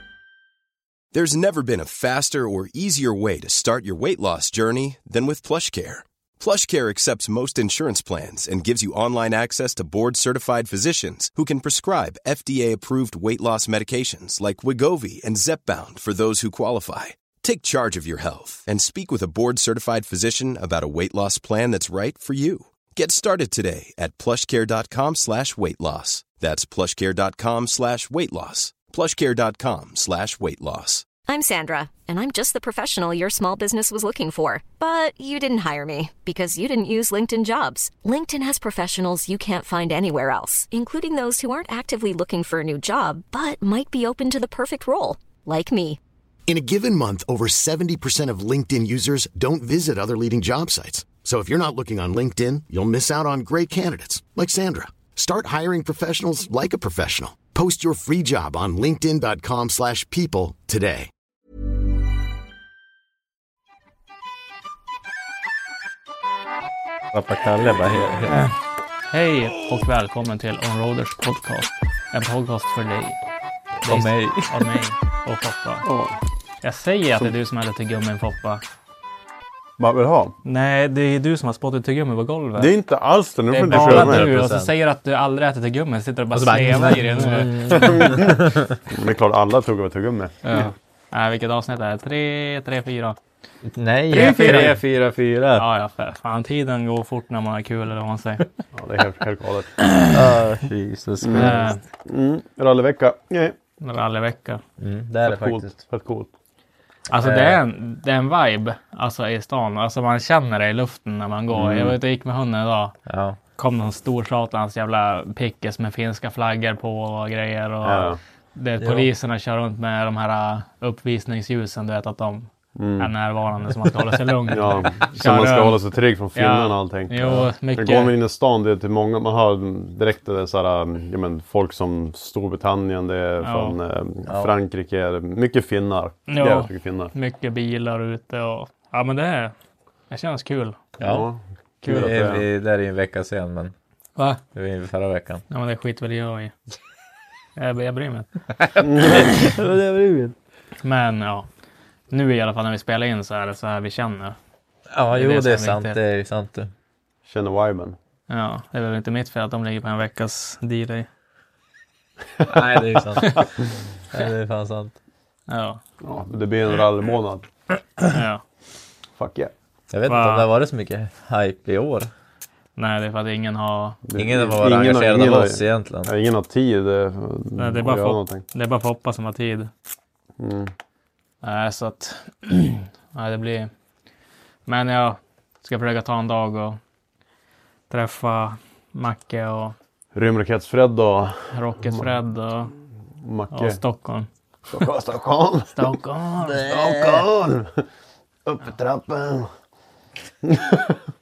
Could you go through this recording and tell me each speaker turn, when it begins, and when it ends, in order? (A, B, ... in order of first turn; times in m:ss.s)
0:01.1-0:31.1 A
0:31.2-0:46.0 B
0:46.5-1:01.1 C
1:07.1-1:08.5 D
1:09.1-1:13.2 E
1:13.8-1:14.5 D
1:13.8-1:15.8 E
1:15.9-1:16.1 F
1:16.6-1:18.6 E
1:19.8-1:20.3 F
1:20.4-1:22.7 E
1:22.6-1:24.4 F
1:23.5-1:28.0 E
1:23.7-1:24.7 D
1:26.3-1:28.8 D
1:27.8-1:28.4 F
1:28.9-1:30.3 F
1:30.4-1:33.2 E
1:33.7-1:35.6 D
1:34.1-1:34.8 E
1:35.6-1:38.5 E
1:38.7-1:39.8 F
1:40.1-1:41.7 D
1:41.2-1:43.6 F
1:41.3-1:41.8 E
1:43.8-1:44.6 E
1:44.8-1:45.8 D
1:45.2-1:46.3 F
1:47.1-1:52.9 E
1:47.2-1:47.6 D
1:51.5-1:52.0 F
1:53.1-1:53.4 D
1:53.6-2:05.8 E
1:57.8-1:58.2 F
1:58.8-1:59.1 D
2:02.8-2:03.1 F
2:04.5-2:17.1 F
2:06.3-2:08.1 E
2:13.4-2:13.8 E
2:14.3-2:14.5 D
2:16.3-2:19.5 E
2:20.1-2:20.8 E
2:21.0-2:21.3 D
2:21.0-2:22.4 F
2:21.8-2:23.7 D
2:24.5-2:25.4 D
2:25.5-2:26.5 E
2:27.6-2:28.3 E
2:28.6-2:30.3 D
2:28.9-2:29.2 F
2:30.8-2:31.5 E
2:32.1-2:34.4 E
2:34.9-2:36.7 D
2:35.1-2:36.0 E
2:37.2-2:38.0 F
2:38.3-2:41.1 E
2:42.4-2:43.5 D
2:44.1-2:45.0 D
2:45.5-2:45.8 E
2:46.0-2:47.5 F
2:48.1-2:48.4 E
2:49.2-2:49.5 F
2:49.9-2:52.1 D
2:50.1-2:50.5 E
2:52.8-2:54.0 E
2:54.0-2:58.4 F
2:54.2-2:56.1 D
2:57.6-2:59.7 E
3:00.4-3:00.7 F
3:01.4-3:03.7 E
3:04.6-3:06.8 E
3:07.9-3:09.7 E
3:10.1-3:12.0 F
3:11.5-3:12.7 E
3:13.2-3:13.8 F
3:13.5-3:14.3 E
3:14.7-3:17.8 F
3:15.7-3:16.7 E
3:18.4-3:19.5 F
3:20.4-3:21.0 F